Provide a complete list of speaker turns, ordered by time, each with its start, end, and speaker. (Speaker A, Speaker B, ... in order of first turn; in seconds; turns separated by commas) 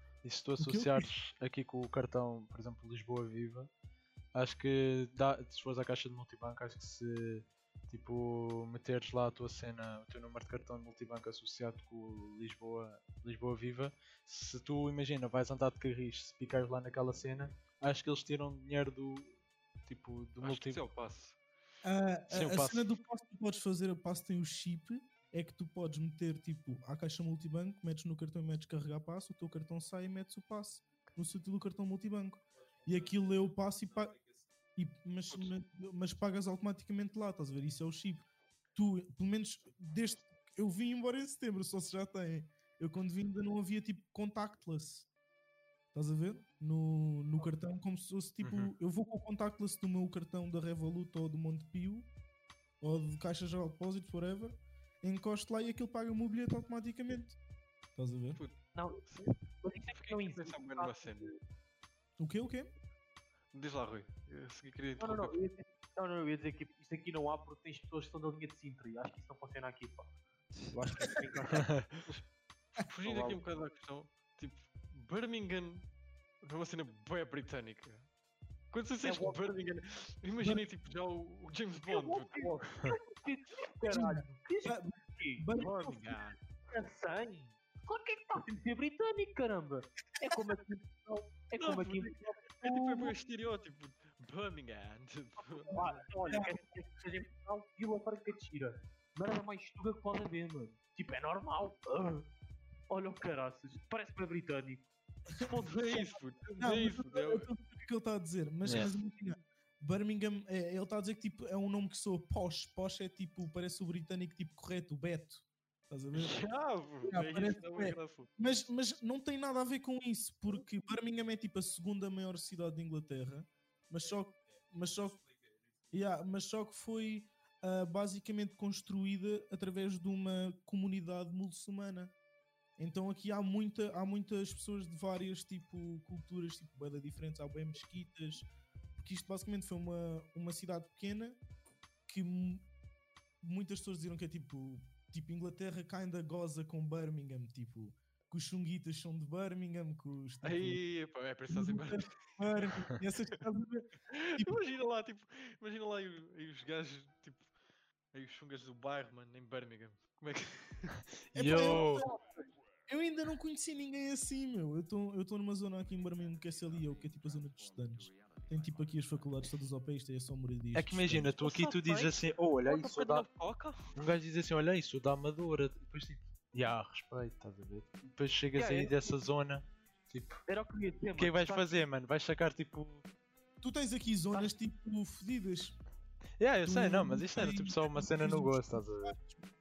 Speaker A: 0.2-3.7, Speaker B: 0.6-1.1, Speaker A: 4.3-19.4, Speaker A: 19.9-20.8, Speaker C: 20.4-21.4, Speaker B: 21.8-34.2, Speaker A: 22.3-22.9, Speaker B: 34.8-45.1, Speaker B: 45.9-52.1, Speaker A: 48.4-48.7, Speaker B: 52.8-57.4, Speaker B: 58.0-58.4, Speaker C: 58.4-59.3, Speaker D: 58.8-59.1, Speaker D: 59.6-61.4, Speaker C: 59.9-61.3, Speaker B: 62.2-62.7, Speaker C: 63.5-65.5, Speaker D: 65.0-70.1, Speaker D: 70.7-71.8, Speaker C: 72.8-75.9, Speaker D: 73.0-73.4, Speaker C: 76.4-78.1, Speaker C: 78.7-82.8, Speaker D: 79.0-79.4, Speaker D: 81.9-85.5, Speaker B: 83.9-86.2, Speaker C: 85.5-86.4, Speaker D: 86.7-92.4, Speaker C: 91.6-95.9, Speaker D: 95.4-102.3, Speaker D: 102.9-104.9, Speaker D: 105.4-106.0, Speaker C: 105.6-107.5, Speaker B: 106.6-116.4, Speaker A: 108.6-108.9, Speaker C: 116.1-118.3, Speaker B: 117.1-125.2, Speaker B: 125.9-132.1, Speaker B: 132.8-138.4, Speaker B: 139.0-141.4, Speaker B: 142.1-142.7, Speaker B: 143.4-150.8, Speaker C: 150.4-152.3, Speaker B: 151.5-154.5, Speaker C: 154.1-157.5, Speaker C: 158.1-161.0, Speaker A: 161.3-162.1, Speaker B: 161.3-162.2, Speaker B: 162.9-171.3, Speaker A: 170.7-173.3, Speaker D: 171.4-172.1, Speaker C: 172.7-174.0, Speaker A: 173.9-180.4, Speaker D: 178.6-179.2, Speaker D: 180.5-181.8, Speaker A: 181.2-183.1, Speaker B: 183.6-185.8, Speaker A: 186.4-189.2, Speaker B: 186.7-189.4